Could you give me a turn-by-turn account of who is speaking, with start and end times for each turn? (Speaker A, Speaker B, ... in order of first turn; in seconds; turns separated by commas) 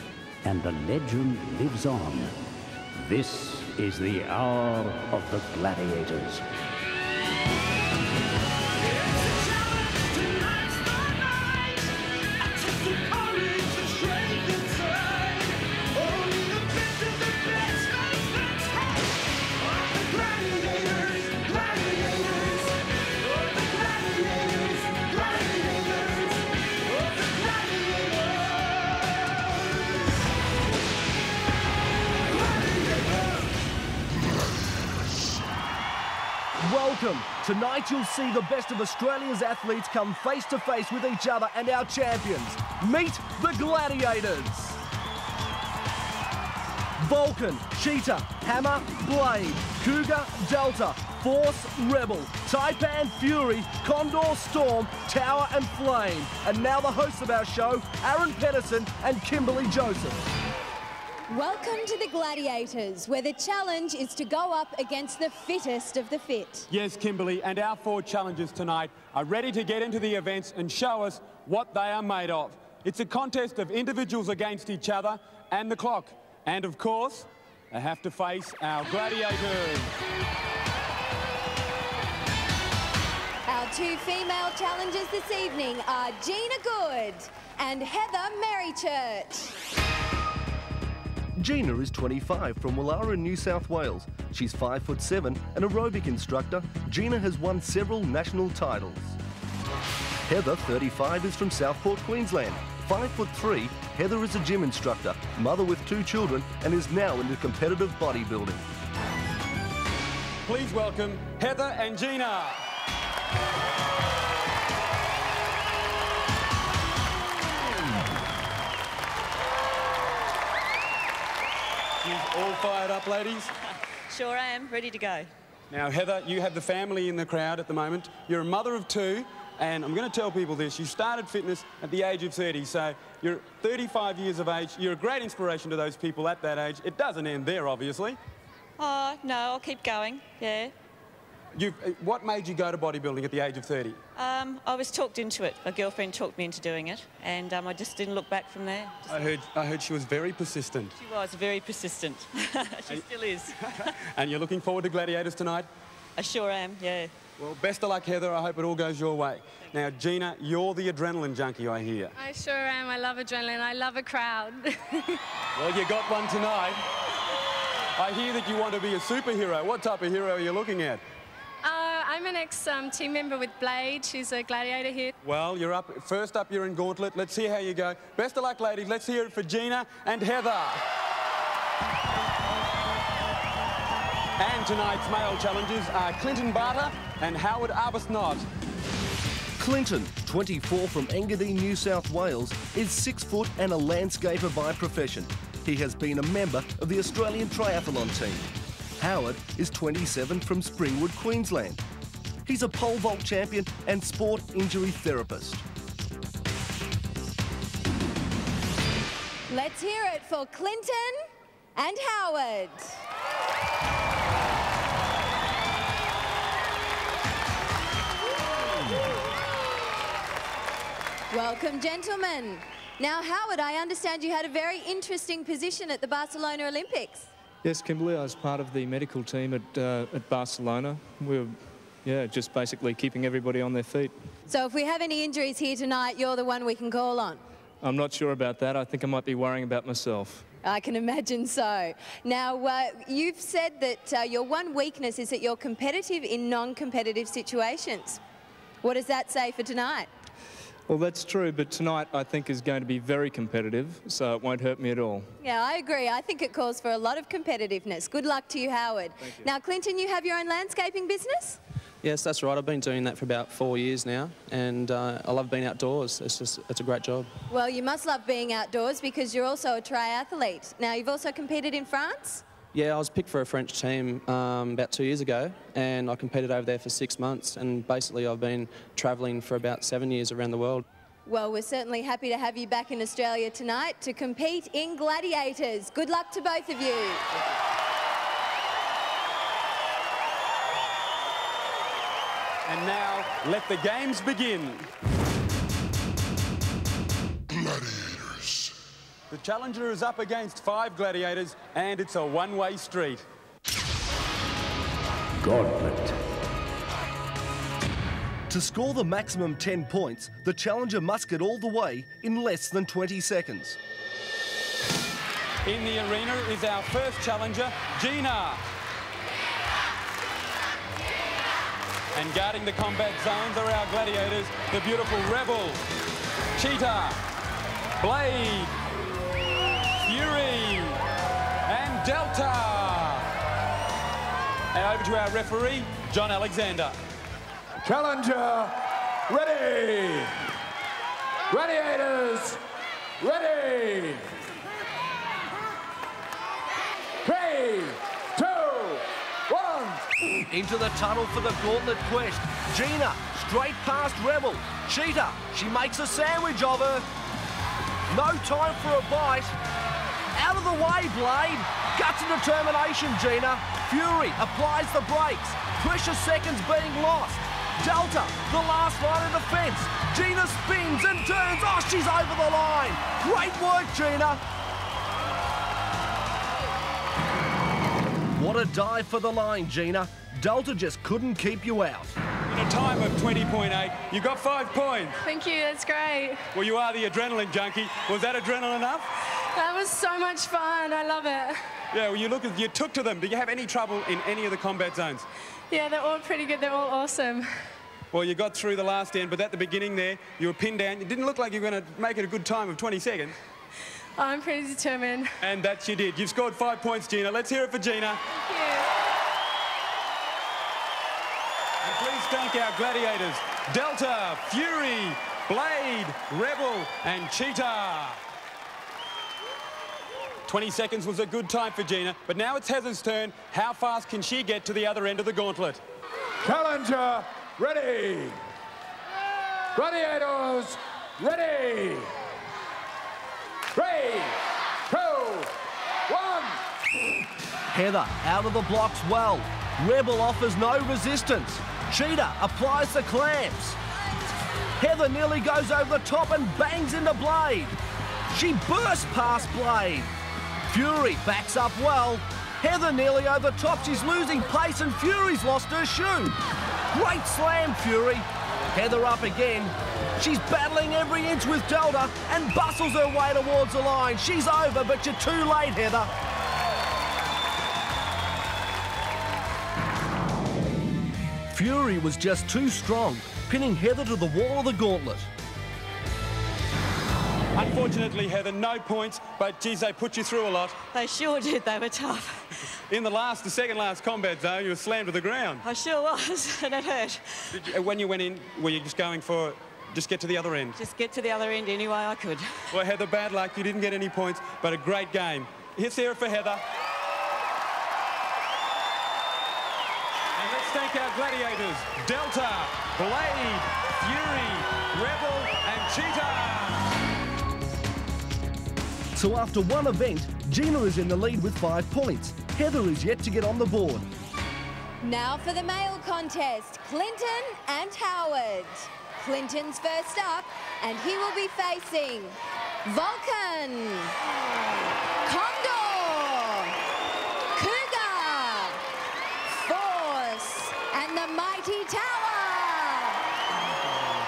Speaker A: 0.4-2.3, Speaker A: 3.0-6.4, Speaker B: 13.1-13.8, Speaker B: 36.6-44.8, Speaker B: 47.0-60.2, Speaker C: 61.3-66.7, Speaker D: 66.7-79.9, Speaker C: 83.5-89.5, Speaker B: 91.4-99.2, Speaker B: 100.2-108.7, Speaker D: 110.5-112.6, Speaker D: 122.0-123.5, Speaker E: 124.1-125.3, Speaker D: 125.7-138.2, Speaker E: 138.8-140.7, Speaker D: 141.5-144.0, Speaker E: 144.2-149.1, Speaker D: 149.1-150.9, Speaker E: 150.9-153.9, Speaker D: 153.8-155.7, Speaker E: 156.2-157.1, Speaker D: 157.4-162.1, Speaker F: 162.2-165.2, Speaker D: 165.6-166.8, Speaker D: 168.0-171.0, Speaker F: 171.6-175.1, Speaker D: 175.2-180.8, Speaker D: 184.4-188.5, Speaker B: 189.6-198.5, Speaker B: 199.0-201.8, Speaker B: 202.4-205.6, Speaker C: 209.5-213.0, Speaker C: 221.3-227.3, Speaker G: 227.6-234.1, Speaker C: 234.5-237.4, Speaker G: 237.8-240.5, Speaker C: 240.6-248.2, Speaker C: 248.8-250.1, Speaker G: 250.9-255.3, Speaker C: 255.4-261.6, Speaker H: 262.0-267.3, Speaker C: 267.5-272.4, Speaker H: 272.7-280.8, Speaker C: 281.3-287.2, Speaker D: 292.6-294.9, Speaker D: 299.3-303.2, Speaker A: 305.4-306.2, Speaker B: 308.5-313.8, Speaker D: 315.6-318.6, Speaker D: 322.1-325.8, Speaker D: 326.6-327.2, Speaker D: 328.0-328.7, Speaker D: 330.0-331.0, Speaker D: 331.7-333.3, Speaker D: 334.7-337.0, Speaker I: 337.8-340.4, Speaker I: 341.5-342.6, Speaker I: 343.2-344.3, Speaker I: 347.2-350.0, Speaker B: 350.5-357.0, Speaker B: 358.1-359.6, Speaker B: 360.3-374.4, Speaker B: 378.3-382.2, Speaker D: 382.5-385.2, Speaker F: 385.2-386.5, Speaker D: 386.5-389.1, Speaker F: 389.5-391.6, Speaker D: 391.9-395.2, Speaker F: 395.7-397.4, Speaker D: 398.1-403.4, Speaker F: 404.2-405.3, Speaker D: 405.4-408.2, Speaker F: 408.3-408.8, Speaker D: 411.8-418.2, Speaker D: 420.5-425.8, Speaker I: 426.4-428.4, Speaker I: 429.7-432.1, Speaker I: 433.7-435.5, Speaker I: 436.1-436.6, Speaker B: 437.7-443.8, Speaker B: 444.8-447.8, Speaker B: 448.3-450.1, Speaker B: 450.7-456.4, Speaker B: 456.9-466.1, Speaker B: 471.5-475.3, Speaker D: 477.5-480.8, Speaker E: 480.9-482.6, Speaker D: 482.9-485.6, Speaker E: 485.6-487.7, Speaker D: 487.5-490.8, Speaker E: 490.8-492.6, Speaker D: 492.7-496.6, Speaker D: 500.4-506.9, Speaker B: 509.1-514.1, Speaker C: 515.0-524.1, Speaker C: 525.2-526.8, Speaker C: 527.5-528.8, Speaker C: 529.5-533.2